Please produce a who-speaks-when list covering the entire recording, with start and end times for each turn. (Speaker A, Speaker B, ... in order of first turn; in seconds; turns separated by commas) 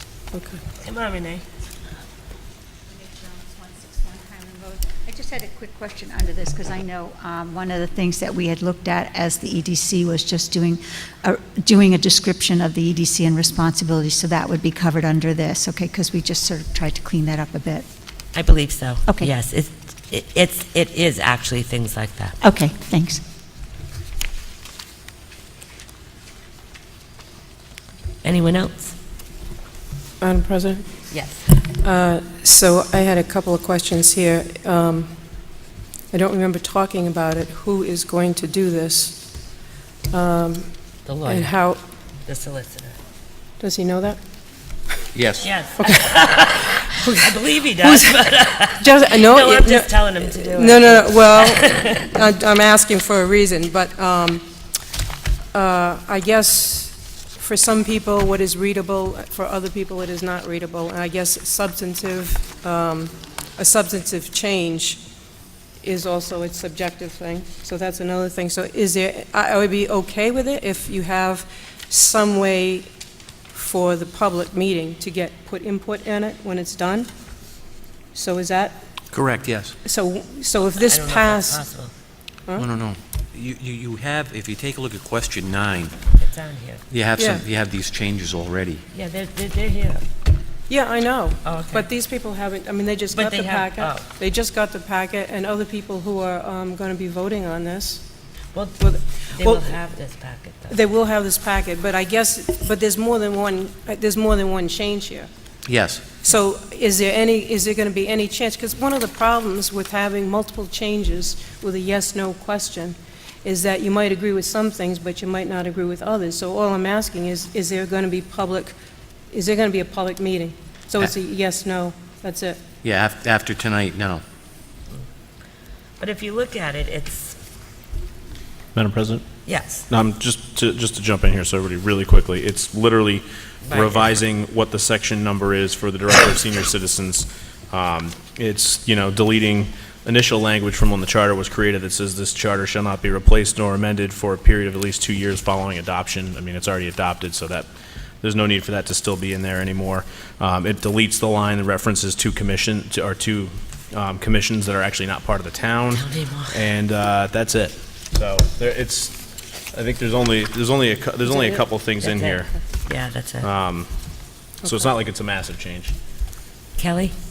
Speaker A: 0.3-0.6, Speaker B: 0.8-1.4, Speaker C: 3.1-17.9, Speaker B: 18.3-22.4, Speaker C: 22.4-23.2, Speaker B: 28.2-28.9, Speaker A: 30.2-30.9, Speaker B: 31.1-31.4, Speaker A: 31.8-35.1, Speaker A: 36.1-39.2, Speaker A: 40.1-40.7, Speaker B: 41.1-41.6, Speaker A: 41.3-41.8, Speaker B: 42.3-43.0, Speaker A: 43.6-44.2, Speaker D: 45.1-45.5, Speaker B: 45.4-52.1, Speaker A: 45.8-54.5, Speaker A: 55.5-65.0, Speaker A: 65.8-72.9, Speaker A: 73.5-77.1, Speaker A: 78.1-78.8, Speaker D: 79.1-79.8, Speaker A: 79.8-81.7, Speaker B: 80.7-81.9, Speaker D: 82.6-85.9, Speaker B: 86.2-86.8, Speaker D: 86.9-88.8, Speaker A: 87.2-87.5, Speaker B: 88.9-90.0, Speaker A: 90.7-98.0, Speaker B: 91.4-91.8, Speaker B: 93.1-94.1, Speaker B: 98.5-100.8, Speaker A: 98.8-99.8, Speaker A: 100.7-105.3, Speaker D: 105.7-106.0, Speaker A: 106.2-118.8, Speaker A: 119.3-122.6, Speaker D: 122.8-124.2, Speaker B: 126.0-127.4, Speaker E: 128.8-129.2, Speaker B: 129.5-129.9, Speaker E: 129.9-147.7, Speaker B: 133.7-134.2, Speaker E: 148.2-162.5, Speaker B: 155.9-156.7, Speaker B: 161.3-163.5, Speaker E: 163.4-163.9, Speaker A: 164.6-164.9, Speaker E: 164.6-165.9, Speaker B: 166.8-167.1